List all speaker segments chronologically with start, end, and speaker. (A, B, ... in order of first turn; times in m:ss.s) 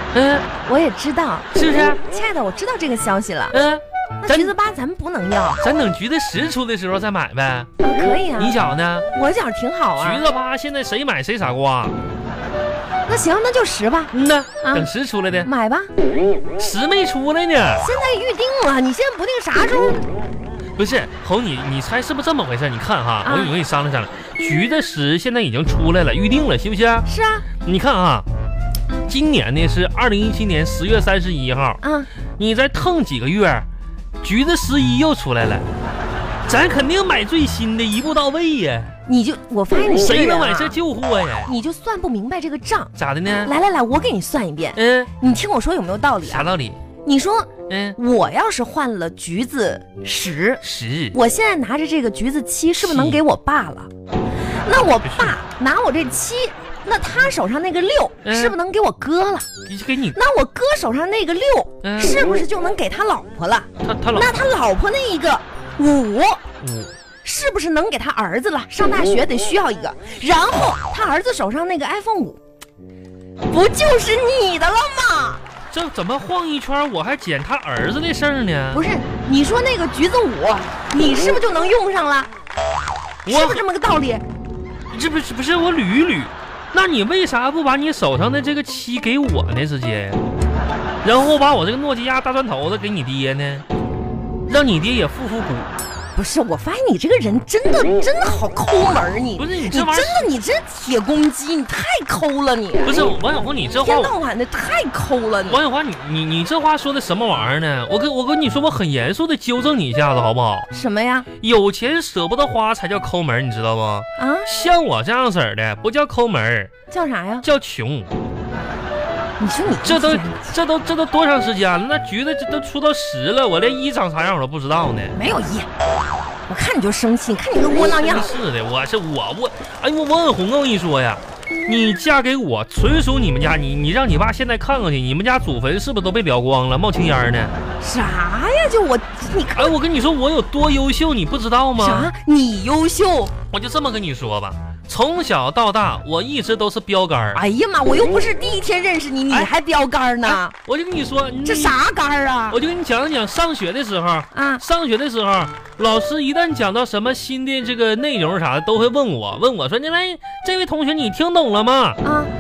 0:00.1-0:00.5 A
0:00.6-0:01.5 B
0:01.5-0:02.0 A
0:02.0-0:03.6 B
0:03.5-0:04.5 A
0:04.2-0:05.6 B
0:05.6-0:07.7 A
0:07.8-0:08.6 B
0:08.4-0:09.1 A
0:09.1-0:10.2 B
0:10.0-0:12.0 A
0:13.1-0:14.9 B
0:14.1-0:15.5 A
0:15.4-0:15.9 B
0:16.6-0:17.8 A
0:17.8-0:20.1 B
0:20.8-0:27.1 A
0:23.2-0:23.5 B
0:27.0-0:27.5 B
0:27.6-0:28.3 A
0:29.1-0:31.8 A
0:31.8-0:32.1 B
0:32.4-0:33.7 A
0:34.2-0:35.6 A
0:36.5-0:38.9 A
0:39.0-0:40.8 B
0:40.0-0:41.5 A
0:41.5-0:46.5 B
0:43.0-0:43.5 A
0:44.8-0:45.1 A
0:46.2-0:46.8 A
0:47.0-0:50.6 B
0:47.7-0:48.0 A
0:50.6-0:51.2 A
0:51.1-0:53.9 B
0:52.8-0:53.2 A
0:54.6-0:59.5 B
0:55.1-0:55.3 A
0:58.2-0:58.6 A
0:59.7-1:00.2 A
1:00.1-1:06.4 B
1:01.8-1:02.2 A
1:03.8-1:04.4 A
1:06.6-1:07.0 A
1:07.2-1:12.4 B
1:13.5-1:15.4 B
1:15.7-1:18.8 A
1:18.7-1:22.3 B
1:23.3-1:23.6 A
1:23.3-1:24.2 B
1:24.9-1:30.2 A
1:31.0-1:33.7 A
1:34.5-1:35.7 A
1:36.1-1:43.2 B
1:39.4-1:40.3 A
1:42.8-1:44.2 A
1:43.8-1:45.6 B
1:45.5-1:50.7 A
1:50.7-1:51.3 B
1:51.4-1:56.7 A
1:54.2-1:54.5 B
1:56.9-1:57.4 B
1:57.4-1:58.1 A
1:59.4-2:00.5 B
1:59.8-2:05.2 A
2:05.1-2:05.7 B
2:06.5-2:08.3 B
2:07.8-2:17.5 A
2:17.8-2:19.8 B
2:19.6-2:22.1 A
2:21.8-2:23.3 B
2:23.5-2:27.4 A
2:27.3-2:30.5 B
2:30.2-2:31.8 A
2:31.4-2:32.6 B
2:32.5-2:42.0 A
2:34.3-2:34.6 B
2:42.0-2:42.3 B